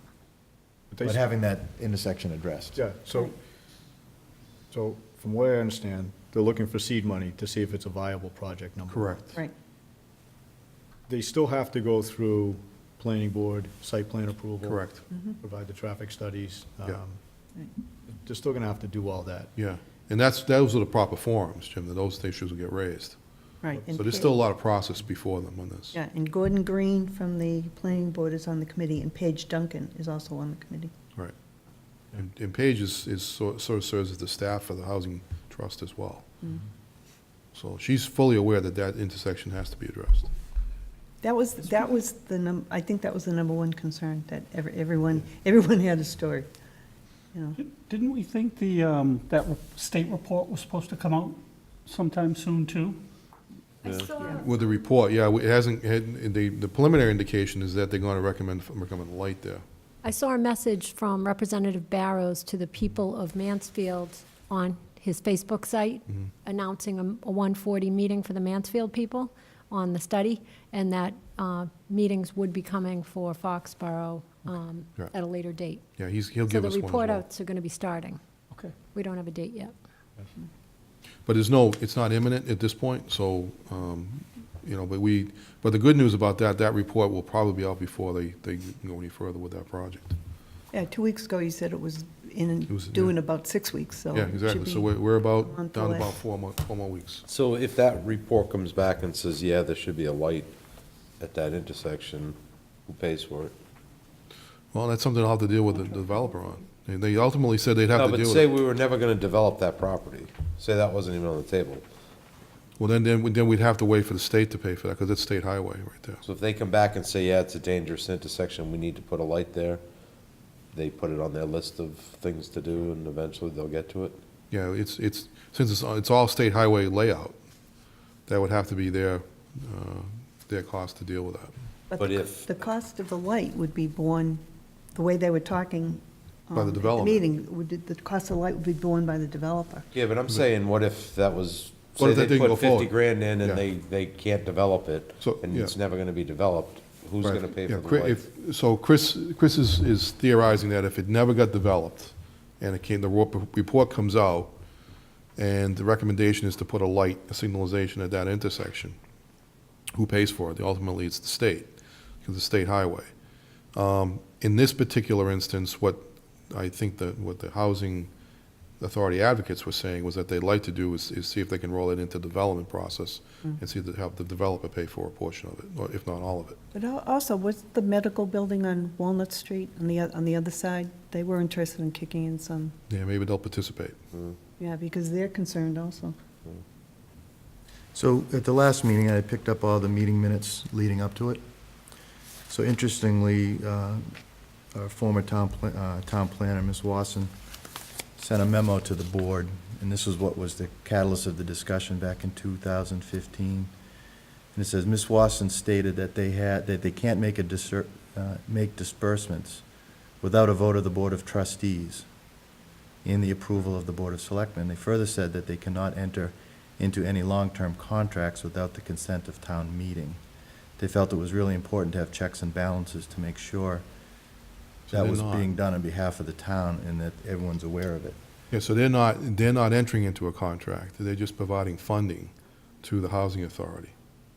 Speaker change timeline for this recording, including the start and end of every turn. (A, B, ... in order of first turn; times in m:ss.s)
0:00.9-0:01.3 A
0:01.0-0:02.8 B
0:02.8-0:03.3 A
0:04.7-0:09.3 A
0:08.9-0:09.3 C
0:11.1-0:17.2 A
0:14.6-0:15.1 C
0:15.1-0:15.4 D
0:18.1-0:19.5 A
0:19.6-0:26.0 C
0:23.6-0:24.4 D
0:25.9-0:30.9 D
0:32.1-0:36.3 C
0:37.6-0:40.3 C
0:41.2-0:46.5 D
0:47.6-0:53.0 E
0:53.8-0:54.2 F
0:53.8-0:54.5 G
0:54.4-0:59.6 C
1:00.0-1:15.8 G
1:16.0-1:17.2 C
1:16.5-1:18.2 G
1:18.9-1:19.8 G
1:21.3-1:30.2 C
1:30.7-1:36.2 D
1:32.7-1:33.1 C
1:34.1-1:37.2 C
1:37.3-1:40.5 F
1:41.2-1:43.6 F
1:44.7-1:48.5 C
1:48.0-1:51.8 F
1:52.8-1:56.2 C
1:56.2-1:59.8 F
2:00.7-2:04.2 F
2:04.5-2:07.4 C
2:08.3-2:11.5 C
2:11.9-2:19.9 D
2:12.0-2:12.6 F
2:16.6-2:17.2 C
2:19.9-2:28.2 F
2:22.0-2:23.6 C
2:25.2-2:25.8 C
2:27.2-2:34.6 C
2:35.4-2:39.0 C
2:39.9-2:43.1 C
2:43.7-2:48.1 C
2:48.8-2:56.6 C
2:56.7-3:02.7 D
3:02.9-3:04.0 C
3:04.6-3:06.2 D
3:07.9-3:11.4 B
3:12.5-3:14.2 B
3:14.7-3:17.3 B
3:18.2-3:23.7 B
3:24.5-3:29.6 B
3:30.2-3:32.1 B
3:33.0-3:40.2 B
3:40.8-3:43.8 B
3:44.9-3:45.5 C
3:44.9-3:48.2 B
3:48.5-3:53.9 C